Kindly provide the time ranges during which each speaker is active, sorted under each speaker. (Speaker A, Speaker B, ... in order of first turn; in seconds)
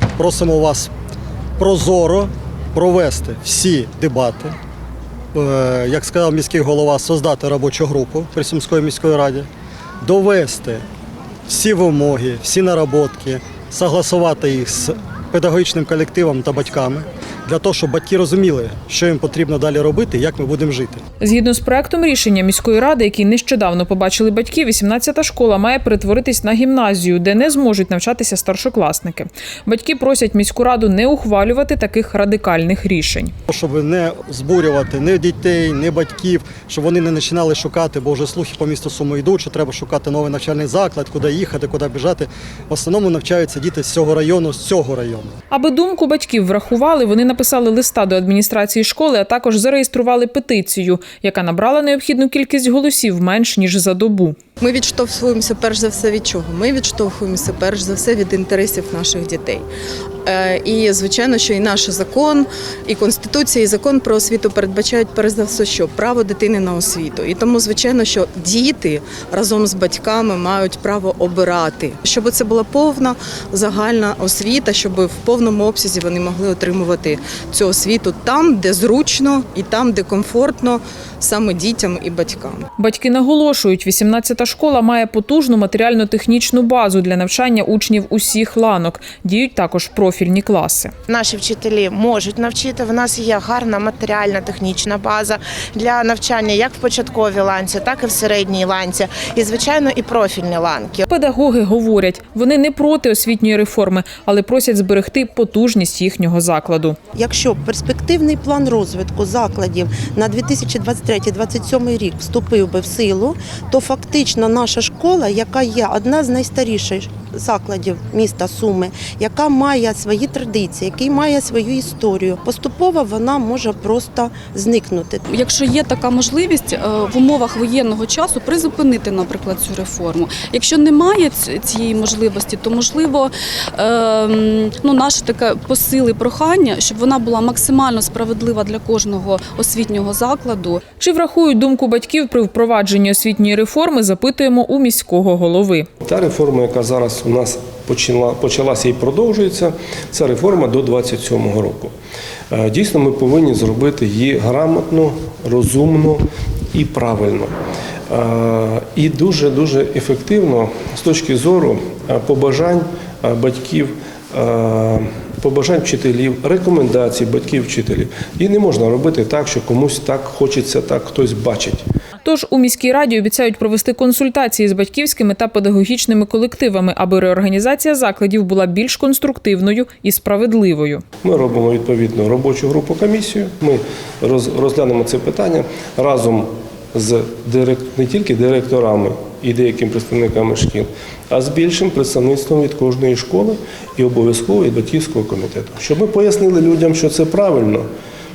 Speaker A: 0.2-0.9, 1.6-4.5, 5.3-9.5, 10.0-10.8, 11.5-21.0, 33.5-45.3
Speaker B: 21.2-33.3, 45.5-54.4, 82.8-90.9, 101.1-107.0, 141.0-145.9, 172.2-181.0
Speaker C: 54.6-59.7, 60.2-82.7
Speaker D: 91.1-101.1
Speaker E: 107.1-125.2
Speaker F: 125.3-140.8
Speaker G: 146.0-151.9, 152.5-156.2, 156.7-157.5, 158.1-171.8, 181.2-197.8